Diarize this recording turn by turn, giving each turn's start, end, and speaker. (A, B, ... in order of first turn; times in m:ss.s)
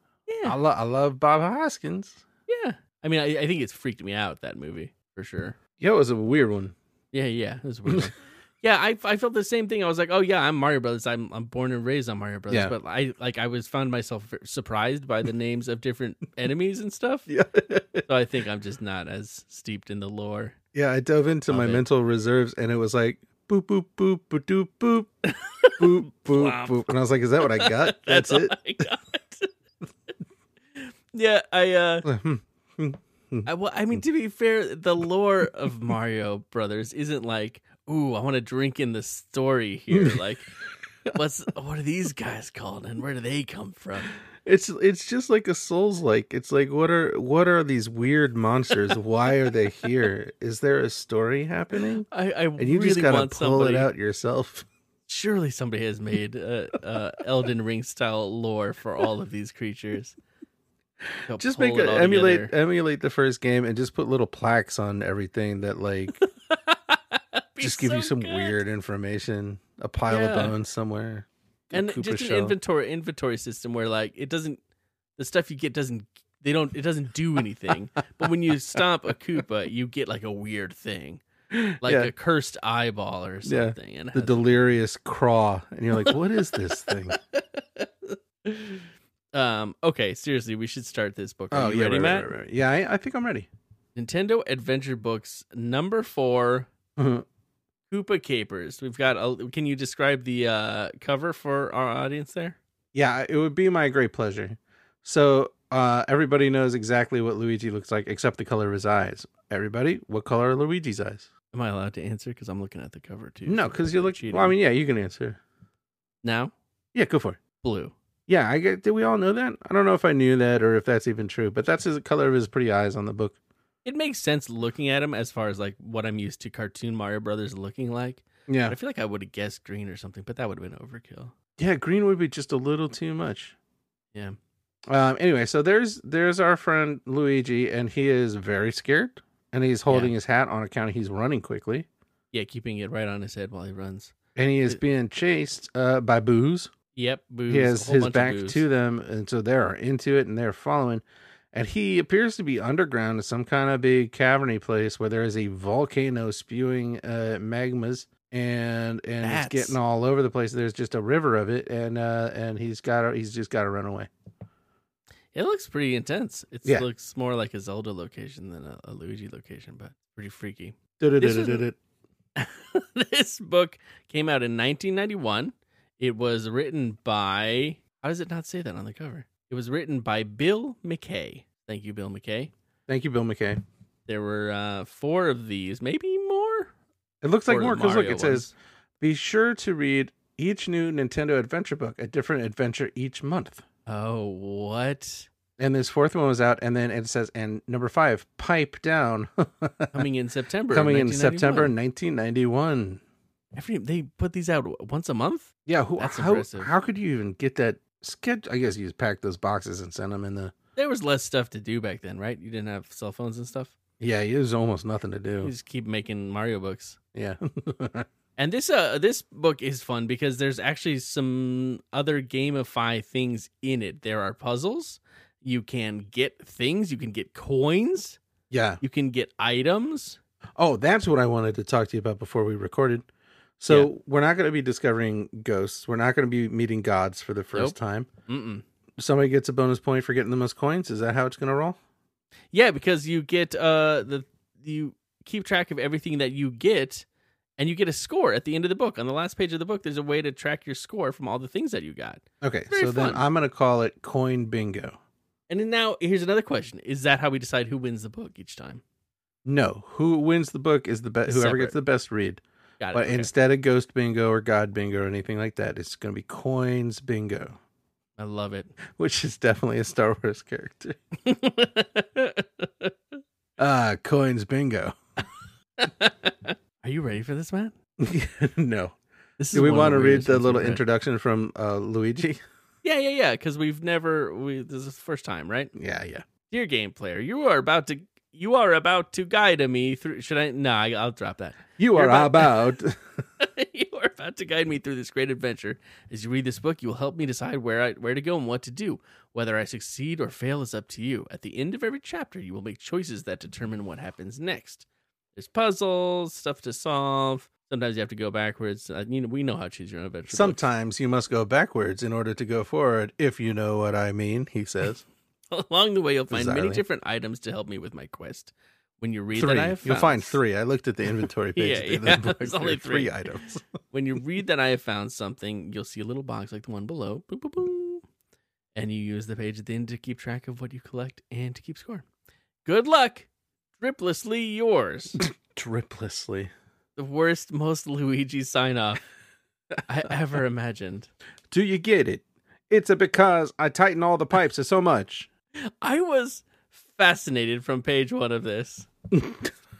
0:00.3-0:00.6 A
0:00.4-0:02.2 B
0:02.5-0:05.6 A
0:05.8-0:06.7 B
0:07.1-0:17.3 A
0:17.3-0:18.0 B
0:18.0-0:20.6 A
0:20.7-0:25.1 B
0:21.5-0:21.8 A
0:25.3-0:26.8 A
0:25.8-0:28.6 B
0:27.4-0:29.5 A
0:30.8-0:32.1 A
0:32.0-0:33.5 B
0:33.4-0:40.5 A
0:39.9-0:40.2 B
0:41.1-0:44.1 A
0:44.4-0:52.1 B
0:52.1-0:53.9 A
0:52.6-0:54.6 B
0:55.1-1:00.2 A
1:01.3-1:02.5 A
1:01.3-1:06.2 B
1:06.2-1:08.6 A
1:07.6-1:12.6 B
1:10.1-1:10.5 A
1:11.7-1:14.6 A
1:15.2-1:21.2 A
1:21.5-1:22.1 B
1:21.8-1:24.4 A
1:23.4-1:27.2 B
1:26.7-1:32.3 A
1:31.5-1:33.5 B
1:34.0-1:36.7 A
1:37.0-1:37.2 B
1:37.9-1:42.6 A
1:42.9-1:51.3 B
1:51.5-1:54.5 A
1:53.4-1:55.4 B
1:56.2-1:56.5 A
1:56.9-1:57.4 B
1:57.6-1:57.9 A
1:58.3-2:03.4 B
2:03.8-2:11.3 A
2:08.5-2:08.8 B
2:11.6-2:13.5 B
2:14.9-2:21.9 B
2:19.9-2:20.1 A
2:22.3-2:24.1 A
2:24.4-2:26.7 B
2:26.9-2:28.6 A
2:27.5-2:44.1 B
2:39.2-2:39.8 A
2:45.3-2:51.6 A
2:51.0-2:51.8 B
2:52.4-3:02.5 A
3:02.9-3:03.6 B
3:04.1-3:06.7 A
3:07.2-3:13.6 B
3:07.5-3:08.5 A
3:13.8-3:15.3 A
3:15.6-3:20.0 B
3:19.9-3:21.7 A
3:20.7-3:23.0 B
3:23.5-3:26.7 A
3:25.6-3:30.5 B
3:30.8-3:33.7 A
3:34.0-3:35.5 B
3:35.4-3:37.0 A
3:37.1-3:38.1 B
3:38.4-3:48.2 A
3:48.5-3:48.8 B
3:48.8-3:50.2 A
3:50.6-3:53.0 B
3:53.6-3:58.1 B
3:58.3-3:58.6 A
3:59.0-4:01.8 B
4:02.5-4:07.0 A
4:07.6-4:13.2 A
4:12.4-4:15.0 B
4:15.5-4:18.8 A
4:19.4-4:27.6 B
4:21.2-4:21.7 A
4:22.8-4:23.3 A
4:28.2-4:28.7 A
4:28.9-4:31.0 B
4:31.2-4:32.9 A
4:33.6-4:35.0 B
4:35.8-4:37.7 A
4:38.0-4:39.0 B
4:39.4-4:40.8 A
4:39.5-4:42.4 B
4:42.8-4:45.7 A
4:45.7-4:46.2 B
4:46.5-4:52.7 A
4:51.8-4:53.0 B
4:53.4-5:10.6 A
5:10.3-5:15.0 B
5:15.5-5:20.4 A
5:16.3-5:16.8 B
5:19.3-5:23.6 B
5:21.5-5:23.2 A
5:23.9-5:28.0 A
5:28.7-5:32.0 A
5:32.6-5:33.3 A
5:33.8-5:35.2 A
5:35.2-5:36.5 B
5:37.0-5:39.0 A
5:39.9-5:41.1 A
5:41.5-5:45.3 B
5:45.6-5:48.9 A
5:49.1-5:49.5 B